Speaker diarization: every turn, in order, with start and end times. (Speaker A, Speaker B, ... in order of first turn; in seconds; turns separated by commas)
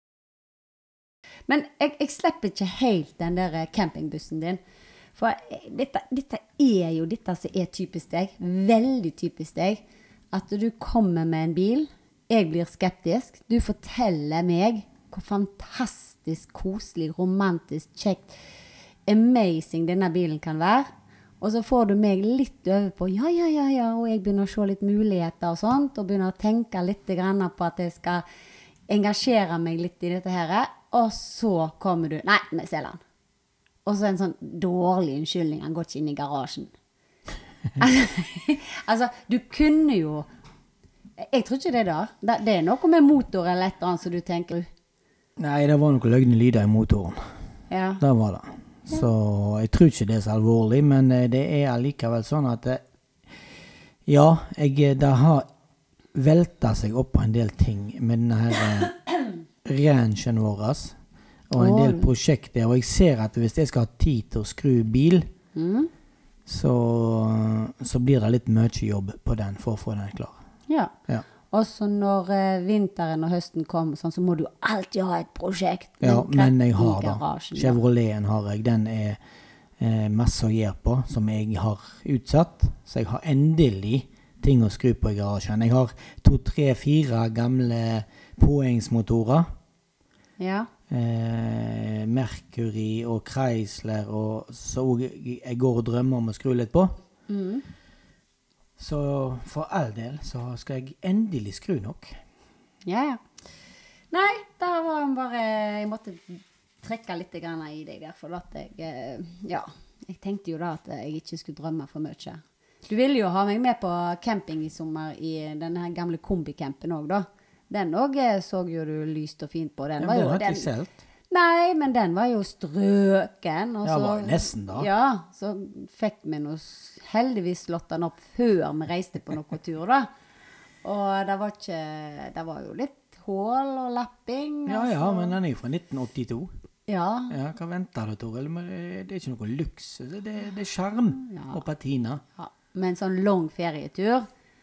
Speaker A: 1.5-4.6, Speaker A: 5.2-18.3, Speaker A: 19.1-28.2, Speaker A: 28.9-33.0, Speaker A: 33.9-36.7, Speaker A: 37.8-40.3, Speaker A: 41.2-44.7, Speaker B: 45.4-47.3, Speaker A: 47.7-48.0, Speaker B: 48.0-52.8, Speaker B: 54.1-55.5, Speaker B: 56.1-59.0, Speaker B: 59.6-61.0, Speaker B: 61.5-65.3, Speaker A: 61.5-62.1, Speaker A: 65.5-65.9, Speaker B: 66.5-70.4, Speaker A: 70.7-77.8, Speaker B: 76.0-79.2, Speaker B: 79.8-89.5, Speaker A: 90.4-90.7, Speaker B: 90.9-97.0, Speaker A: 97.3-97.7, Speaker B: 98.8-102.2, Speaker A: 102.9-103.2, Speaker A: 104.1-120.7, Speaker B: 120.0-121.0, Speaker A: 121.3-130.1, Speaker B: 123.8-124.9, Speaker A: 130.8-135.4, Speaker B: 134.7-136.5, Speaker A: 136.9-137.4, Speaker B: 137.3-142.2, Speaker A: 141.2-141.6, Speaker A: 142.4-144.3